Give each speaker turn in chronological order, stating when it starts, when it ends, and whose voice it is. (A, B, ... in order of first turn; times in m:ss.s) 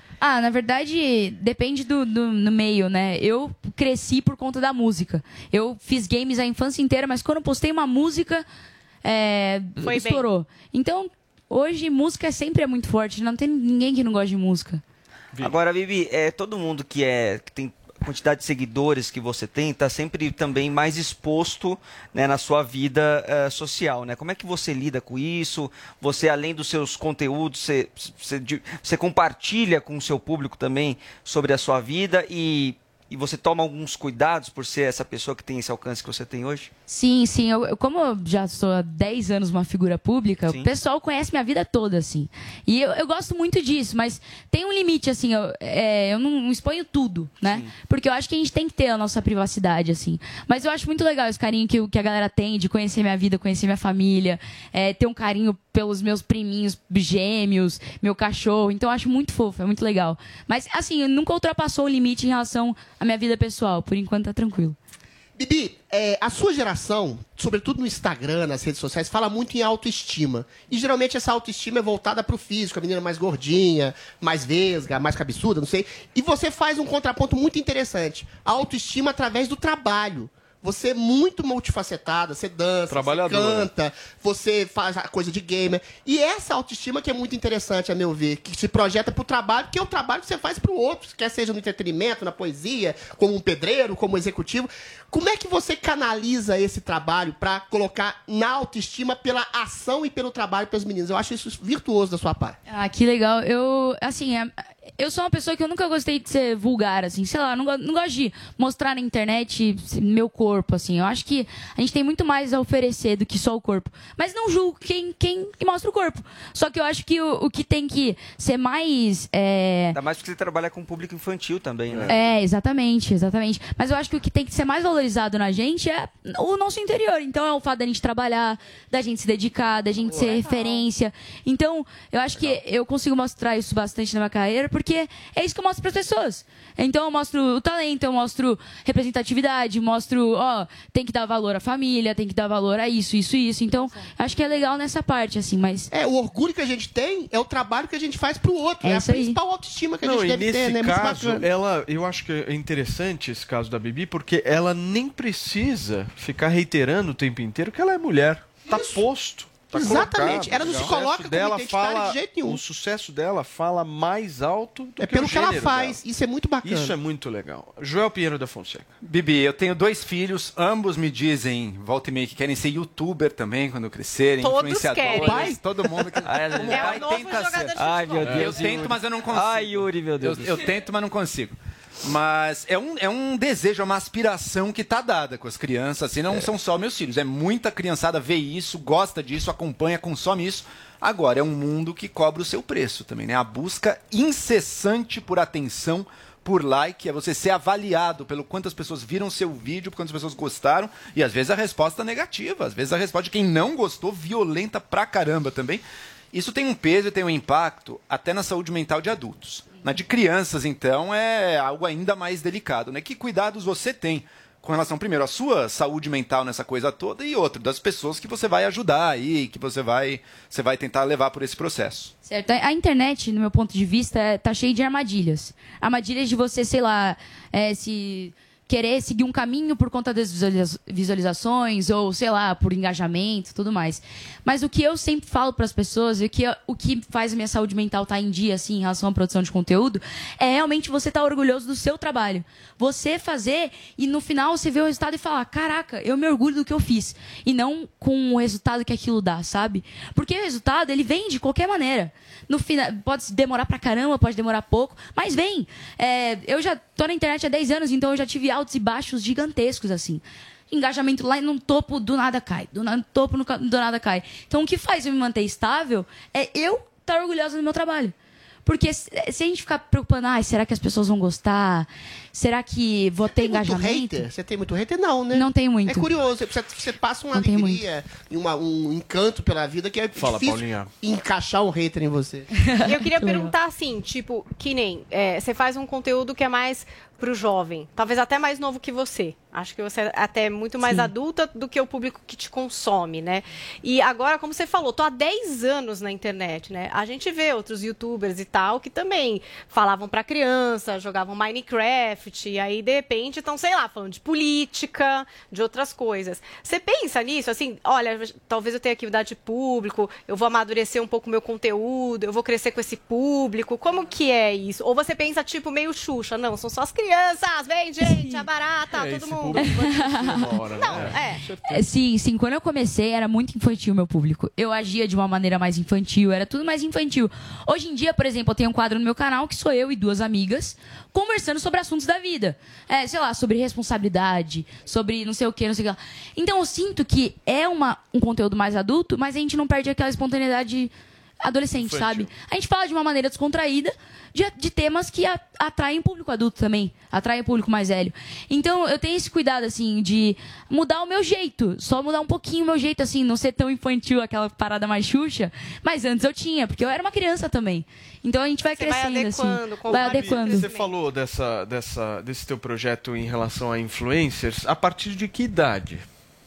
0:00.2-0:08.4 A
0:09.0-0:14.8 A
0:09.8-0:10.3 B
0:15.4-0:36.7 C
0:36.9-1:04.8 A
0:40.5-0:40.7 C
0:47.4-0:47.8 C
1:05.4-1:42.6 D
1:22.9-1:23.7 E
1:42.7-2:00.0 A
1:59.9-2:02.3 C
2:02.1-2:25.9 A
2:23.8-2:24.6 B
2:25.9-2:31.5 D
2:28.8-2:29.4 A
2:30.0-2:46.0 E
2:38.7-2:39.0 D
2:39.7-2:42.6 D
2:45.0-2:47.0 D
2:46.6-2:48.9 E
2:49.0-3:42.1 F
2:54.4-2:55.6 B
2:55.0-2:55.6 D
2:56.2-2:57.2 C
2:56.6-2:58.4 B
2:57.8-3:00.5 C
2:58.2-2:58.9 E
3:00.2-3:00.5 E
3:42.2-4:28.1 A
4:28.7-4:34.2 A
4:33.2-4:42.5 D
4:35.3-4:36.1 A
4:37.3-4:37.8 A
4:40.2-4:40.9 E
4:42.6-4:43.5 A
4:42.9-5:19.7 B
4:50.8-4:51.1 A
5:18.1-5:18.4 A
5:18.9-5:21.8 E
5:19.6-5:20.6 A
5:20.6-5:21.5 B
5:21.7-5:40.9 A
5:41.4-6:00.7 A
5:41.8-5:42.3 E
5:58.6-6:00.9 B
6:00.0-6:06.1 E